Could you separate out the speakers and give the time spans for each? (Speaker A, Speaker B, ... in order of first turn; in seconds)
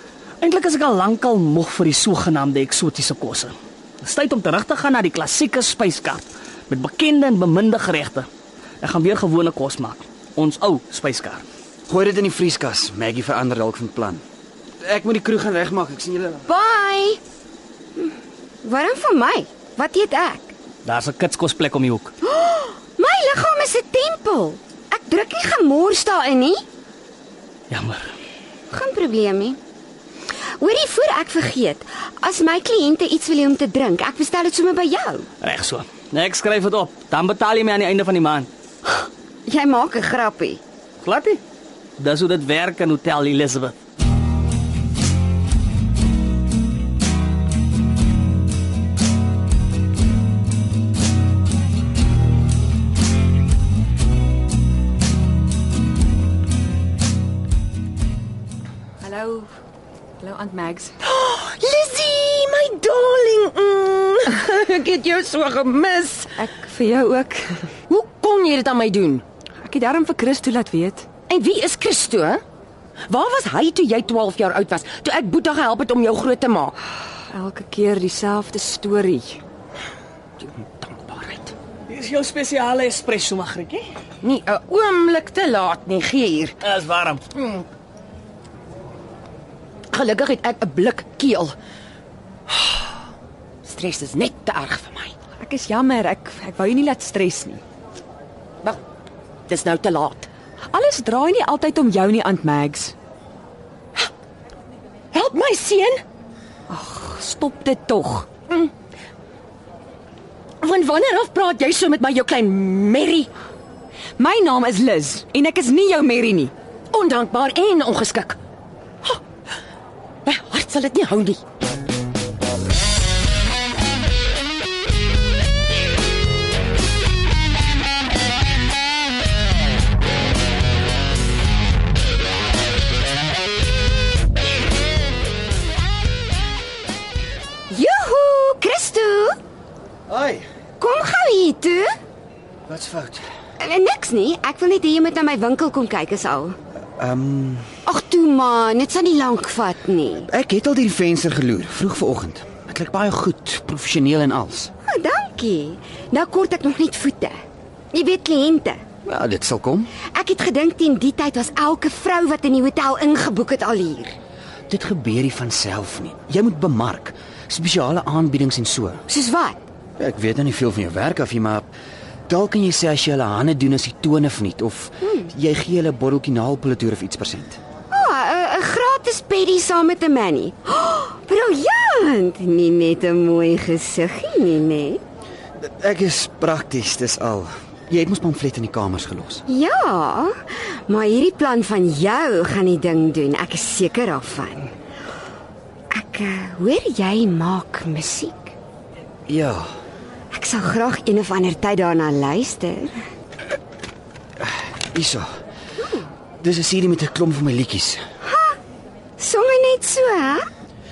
Speaker A: 0.4-8.3, 8.8-11.4, 20.8-22.1, 27.7-28.0, 35.4-38.5, 41.0-41.4, 42.0-43.7, 81.9-83.9, 86.6-87.2
Speaker B: 11.9-14.2, 14.8-16.4, 140.1-140.4, 142.7-143.2, 147.0-147.7, 150.3-154.7, 159.0-159.9, 164.7-169.0, 170.0-171.7, 172.3-177.6, 185.6-189.4, 199.3-199.7, 204.4-205.3, 206.4-208.0
Speaker C: 16.4-17.2, 18.0-20.5, 22.2-26.6, 28.7-29.6, 30.6-35.3, 39.5-40.6, 137.7-139.4, 140.8-141.9, 143.6-146.6, 147.8-150.3, 154.9-157.3, 157.9-158.8, 160.1-164.2, 169.1-169.7, 177.9-185.0, 189.5-194.7, 195.9-198.5, 200.3-203.0, 208.2-208.6, 209.2-210.5
Speaker D: 59.0-59.5, 60.2-61.0, 66.4-67.4, 69.6-71.1, 77.3-79.4, 95.4-97.6, 100.7-102.9, 106.7-108.3, 114.2-116.5
Speaker E: 61.0-66.4, 67.9-69.2, 71.3-72.4, 73.1-76.7, 80.4-81.5, 84.2-86.5, 87.3-87.7, 89.9-91.5, 92.5-92.9, 93.6-95.1, 99.5-100.3, 105.1-106.0, 110.6-113.3, 116.9-118.4, 120.2-121.4